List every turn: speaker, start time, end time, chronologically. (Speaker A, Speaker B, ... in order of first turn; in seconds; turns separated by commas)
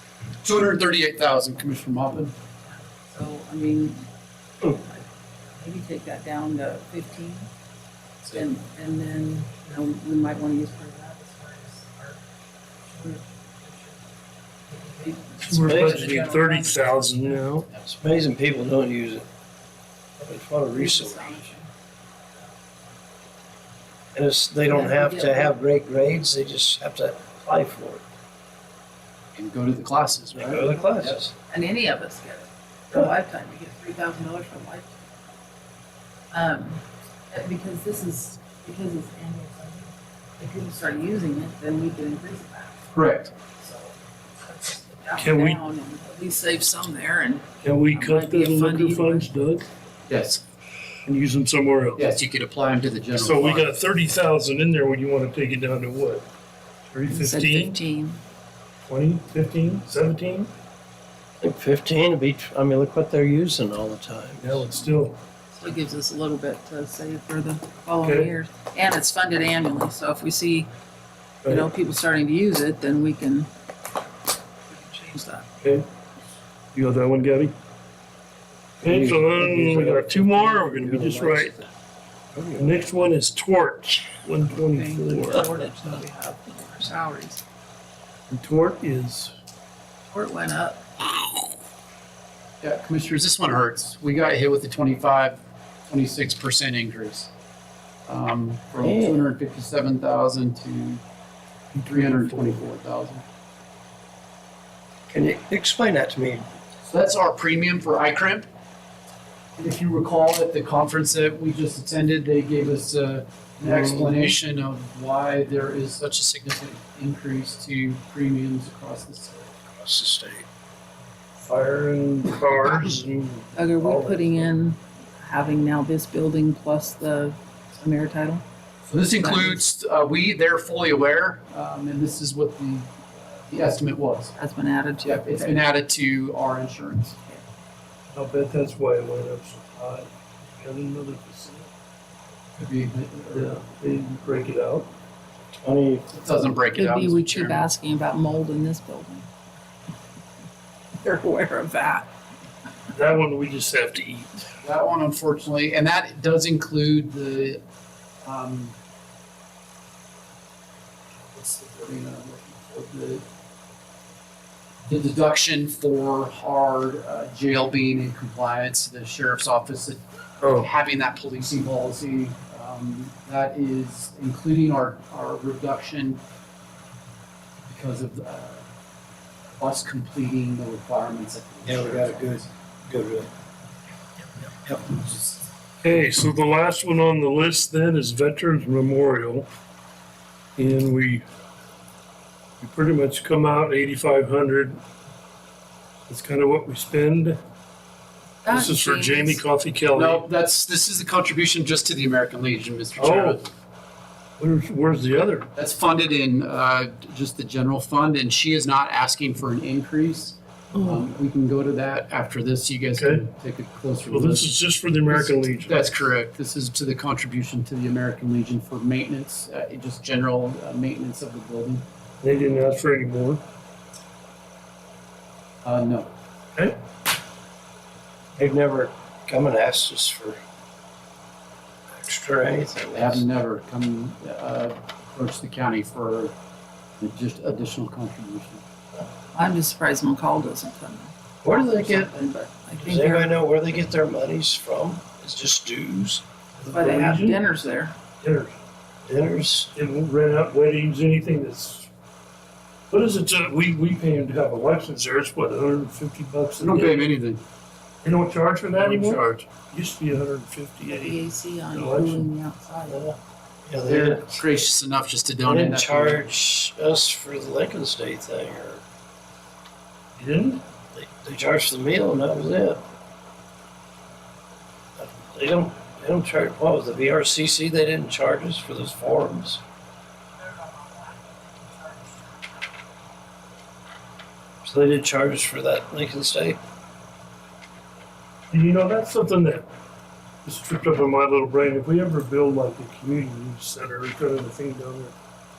Speaker A: 0.4-2.3, Speaker B: 2.7-4.1, Speaker B: 4.6-5.0, Speaker B: 5.6-7.5, Speaker B: 8.3-12.2, Speaker B: 12.8-14.0, Speaker B: 14.7-17.5, Speaker C: 15.4-17.7, Speaker D: 15.6-16.1, Speaker D: 18.0-19.2, Speaker D: 20.2-21.5, Speaker B: 20.8-21.7, Speaker D: 24.1-28.0, Speaker B: 24.6-25.6, Speaker A: 29.4-31.2, Speaker D: 30.4-31.3, Speaker B: 31.5-35.0, Speaker B: 36.3-42.8, Speaker A: 42.9-43.3, Speaker B: 43.4-49.3, Speaker C: 45.2-45.6, Speaker C: 47.6-49.6, Speaker A: 50.1-50.4, Speaker C: 51.0-52.0, Speaker A: 52.0-53.7, Speaker C: 53.1-56.2, Speaker C: 56.9-57.8, Speaker B: 57.1-58.2, Speaker C: 58.9-60.5, Speaker D: 61.4-64.6, Speaker C: 64.4-65.2, Speaker B: 65.5-70.7, Speaker C: 68.0-68.3, Speaker C: 71.4-71.7, Speaker B: 71.5-73.5, Speaker B: 74.7-75.5, Speaker C: 75.6-75.9, Speaker C: 76.7-77.5, Speaker C: 78.8-81.5, Speaker D: 78.8-81.3, Speaker A: 80.5-81.7, Speaker D: 82.3-82.7, Speaker C: 82.5-85.5, Speaker B: 84.7-87.4, Speaker C: 88.3-89.3, Speaker B: 90.1-90.8, Speaker A: 92.6-97.3, Speaker A: 98.1-101.0, Speaker D: 98.8-99.2, Speaker A: 101.7-103.2, Speaker C: 101.8-102.5, Speaker D: 105.1-106.5, Speaker A: 106.8-108.5, Speaker A: 109.6-119.5, Speaker D: 113.6-114.2, Speaker D: 119.7-120.5, Speaker C: 121.4-124.5, Speaker B: 123.5-128.4, Speaker A: 128.9-134.3, Speaker B: 129.2-129.6, Speaker B: 134.4-135.6, Speaker A: 135.0-137.4, Speaker C: 138.1-141.7, Speaker A: 142.6-143.6, Speaker C: 143.3-144.9, Speaker D: 145.6-146.1, Speaker A: 146.1-147.7, Speaker B: 146.8-149.3, Speaker B: 151.0-152.1, Speaker C: 152.9-154.3, Speaker A: 154.6-157.6, Speaker A: 158.2-158.8, Speaker A: 161.2-163.2, Speaker A: 164.9-176.2, Speaker C: 170.4-170.7, Speaker A: 177.7-178.7, Speaker A: 179.5-182.5, Speaker D: 181.7-183.3, Speaker A: 184.8-185.5, Speaker C: 185.8-189.5, Speaker C: 190.6-191.2, Speaker C: 192.6-194.8, Speaker C: 196.1-197.4, Speaker B: 198.4-199.4, Speaker C: 198.5-200.3, Speaker A: 199.9-203.5, Speaker C: 203.0-203.4, Speaker C: 204.4-205.5, Speaker A: 205.5-214.6, Speaker C: 213.0-213.3, Speaker C: 214.1-216.0, Speaker A: 215.1-221.8, Speaker C: 222.2-223.4, Speaker A: 225.6-226.1, Speaker D: 228.4-230.4, Speaker D: 232.0-233.2, Speaker A: 232.9-236.3, Speaker A: 237.0-238.6, Speaker B: 239.3-243.3, Speaker D: 241.4-242.1, Speaker D: 242.8-246.2, Speaker C: 246.6-247.4, Speaker B: 246.6-248.0, Speaker D: 246.9-247.2, Speaker C: 248.2-248.6, Speaker D: 249.1-249.7, Speaker C: 249.7-251.9, Speaker C: 252.9-257.1, Speaker A: 256.6-257.4, Speaker C: 258.0-261.2, Speaker A: 258.8-259.5, Speaker B: 260.9-263.1, Speaker C: 261.7-262.3, Speaker D: 262.9-263.2, Speaker D: 263.7-264.4, Speaker A: 263.9-266.3, Speaker D: 265.4-268.8, Speaker C: 270.2-270.6, Speaker D: 270.9-272.8, Speaker D: 275.0-279.6, Speaker B: 280.4-282.2, Speaker D: 284.6-286.6, Speaker C: 288.5-289.7, Speaker C: 290.4-295.1